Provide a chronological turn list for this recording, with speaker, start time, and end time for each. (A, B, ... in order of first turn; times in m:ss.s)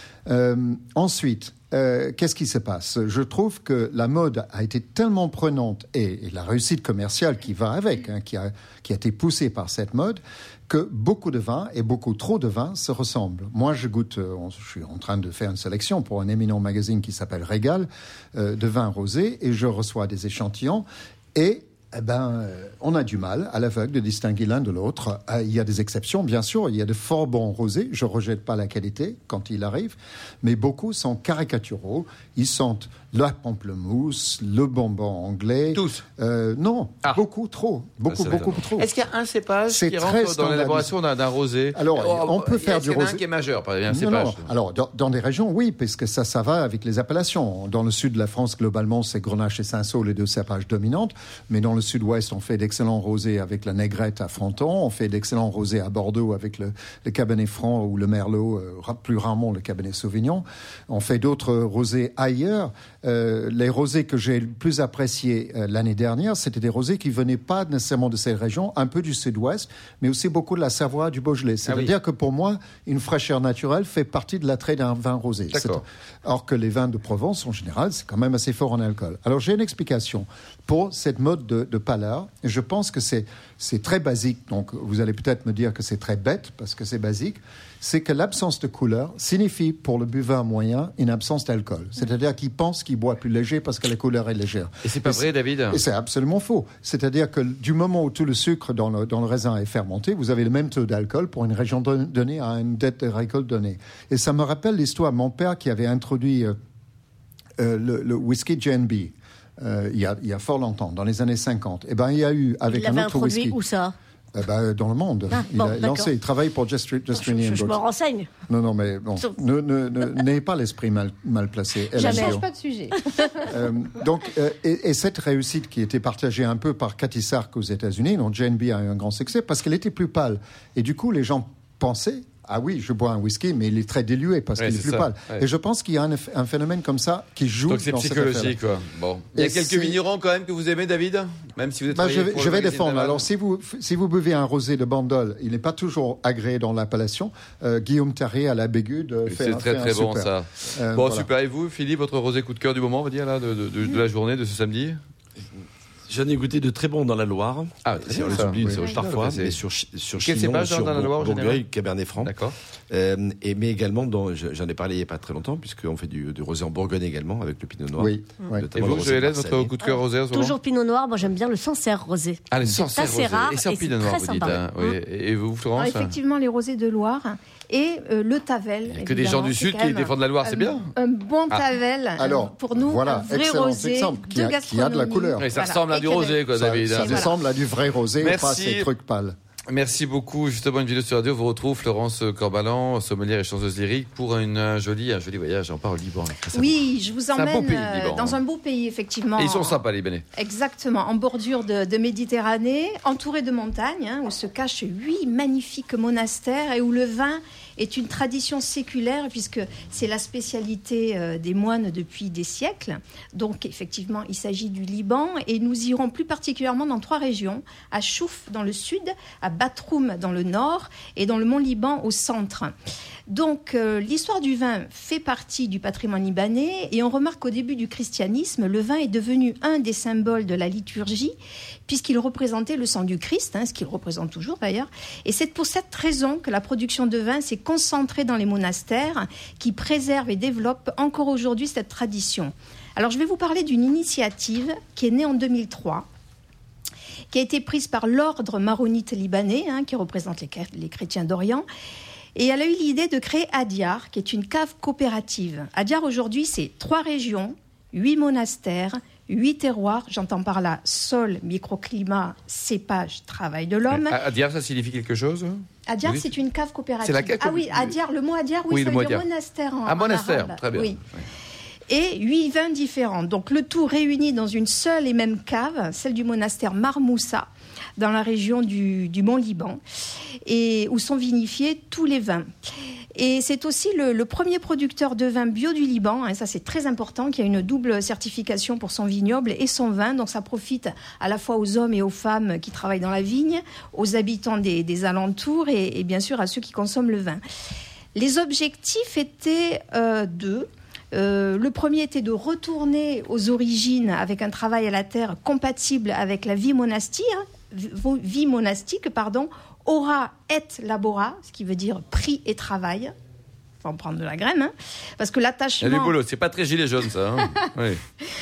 0:00.2-0:38.9 A
0:35.7-0:36.0 B
0:38.1-0:44.5 B
0:39.7-0:40.9 A
0:41.7-0:43.2 A
0:43.9-1:46.6 A
1:11.7-1:11.9 B
1:15.5-1:15.8 B
1:34.8-1:35.8 B
1:47.6-1:53.6 A
1:52.7-1:53.9 C
1:54.3-1:57.8 A
1:55.3-1:56.1 C
1:57.1-1:58.3 C
1:58.5-2:02.4 A
2:01.9-2:02.4 C
2:02.0-2:03.4 D
2:03.4-2:18.6 A
2:14.6-2:15.4 B
2:17.7-2:23.2 B
2:19.4-2:20.0 A
2:21.9-2:31.3 A
2:29.3-2:35.0 B
2:36.1-2:42.4 E
2:37.8-2:39.6 B
2:40.2-2:41.6 B
2:42.2-2:42.5 B
2:42.9-2:49.8 E
2:48.0-2:48.6 A
2:48.7-2:50.6 B
2:49.8-2:55.0 C
2:52.5-2:56.2 B
2:55.8-3:07.3 D
2:58.9-3:00.9 B
3:02.2-3:05.5 A
3:05.4-3:07.3 B
3:06.5-3:09.4 A
3:08.2-3:08.9 B
3:09.7-3:16.8 B
3:16.5-3:19.8 D
3:17.3-3:18.4 B
3:19.4-3:20.2 B
3:20.3-3:42.7 D
3:43.3-3:51.3 D
3:51.9-4:06.1 D
4:07.3-4:11.6 D
4:12.4-4:24.2 D
4:23.9-4:26.3 B
4:25.9-4:31.0 D
4:27.0-4:27.9 B
4:28.7-4:29.2 B
4:29.8-4:31.2 B
4:31.9-4:39.8 D
4:40.4-4:42.5 D
4:43.2-4:57.4 D
4:58.2-5:13.1 D
5:13.8-5:16.1 D
5:15.8-5:18.0 B